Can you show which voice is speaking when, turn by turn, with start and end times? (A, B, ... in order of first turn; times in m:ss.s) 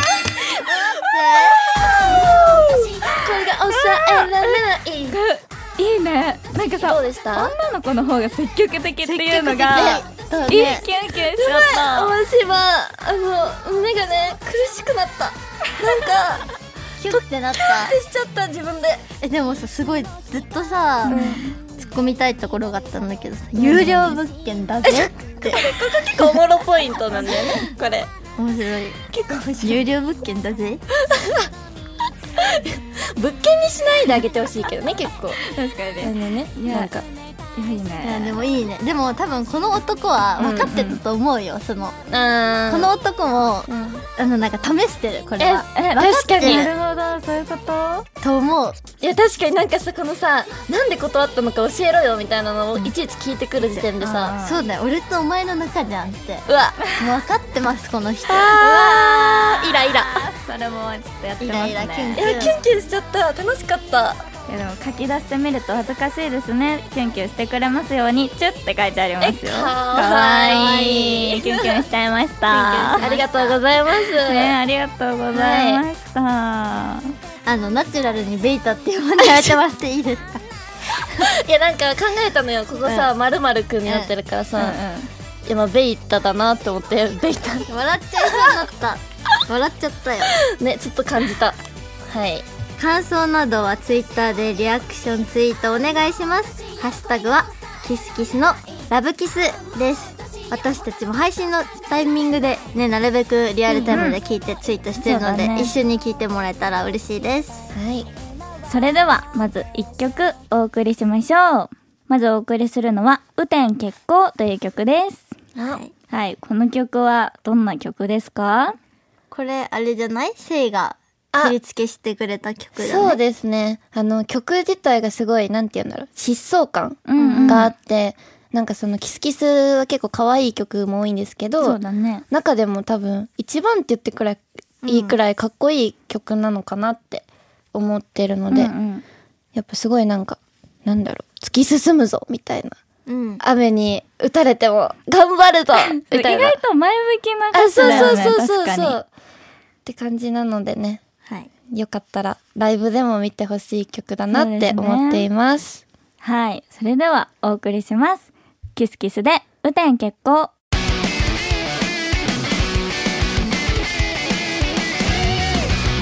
0:00.5-0:01.8 A
0:01.8-0:05.2 B
0:02.0-0:04.6 C
0:05.1-0:12.1 C
0:06.8-0:07.6 B
0:09.0-0:10.8 A
0:11.3-0:16.4 B
0:17.0-0:18.0 A
0:17.1-0:19.1 B
0:19.2-0:26.4 A
0:21.1-0:21.4 B
0:21.1-0:21.6 C
0:23.6-0:24.2 B
0:24.9-0:28.1 B
0:28.4-0:29.0 A
0:29.1-0:29.8 B
0:29.6-0:30.8 A
0:31.0-0:31.5 B
0:32.4-0:35.4 B
0:35.4-0:36.9 C
0:36.0-0:37.1 B
0:37.6-0:38.4 C
0:38.0-0:42.0 A
0:40.4-0:40.8 B
0:40.4-0:41.0 C
0:42.1-0:42.9 B
0:42.7-0:46.7 A
0:43.7-0:44.1 B
0:45.4-0:46.7 B
0:45.8-0:48.1 C
0:48.2-0:48.8 A
0:49.0-0:54.4 B
0:54.0-0:54.6 C
0:54.4-0:56.5 A
0:56.5-0:56.8 B
0:57.0-0:59.1 A
0:58.3-1:00.2 B
0:58.6-1:02.5 C
1:01.4-1:02.6 A
1:02.2-1:04.2 B
1:04.5-1:13.0 C
1:09.2-1:11.8 B
1:12.5-1:14.6 B
1:13.0-1:13.6 A
1:14.2-1:17.1 C
1:15.3-1:15.8 B
1:17.4-1:21.3 A
1:19.2-1:19.6 B
1:21.2-1:24.8 B
1:22.8-1:23.1 A
1:23.8-1:24.1 A
1:24.6-1:25.1 C
1:25.4-1:27.7 B
1:27.7-1:30.4 A
1:28.3-1:28.6 B
1:30.4-1:32.5 B
1:32.8-1:47.7 A
1:43.8-1:44.2 B
1:45.0-1:45.7 C
1:47.7-1:48.1 B
1:48.7-1:55.3 C
1:56.1-1:58.8 C
1:59.3-2:03.2 A
2:02.8-2:11.8 B
2:07.1-2:07.7 C
2:07.2-2:07.7 A
2:11.6-2:12.2 C
2:12.3-2:18.7 B
2:14.8-2:15.2 A
2:18.5-2:19.0 C
2:19.6-2:22.8 B
2:23.1-2:23.4 A
2:23.4-2:26.6 B
2:26.0-2:29.0 C
2:27.5-2:29.1 B
2:27.8-2:28.2 A
2:29.8-2:31.0 B
2:31.7-2:35.8 B
2:34.3-2:35.3 C
2:36.2-2:40.5 C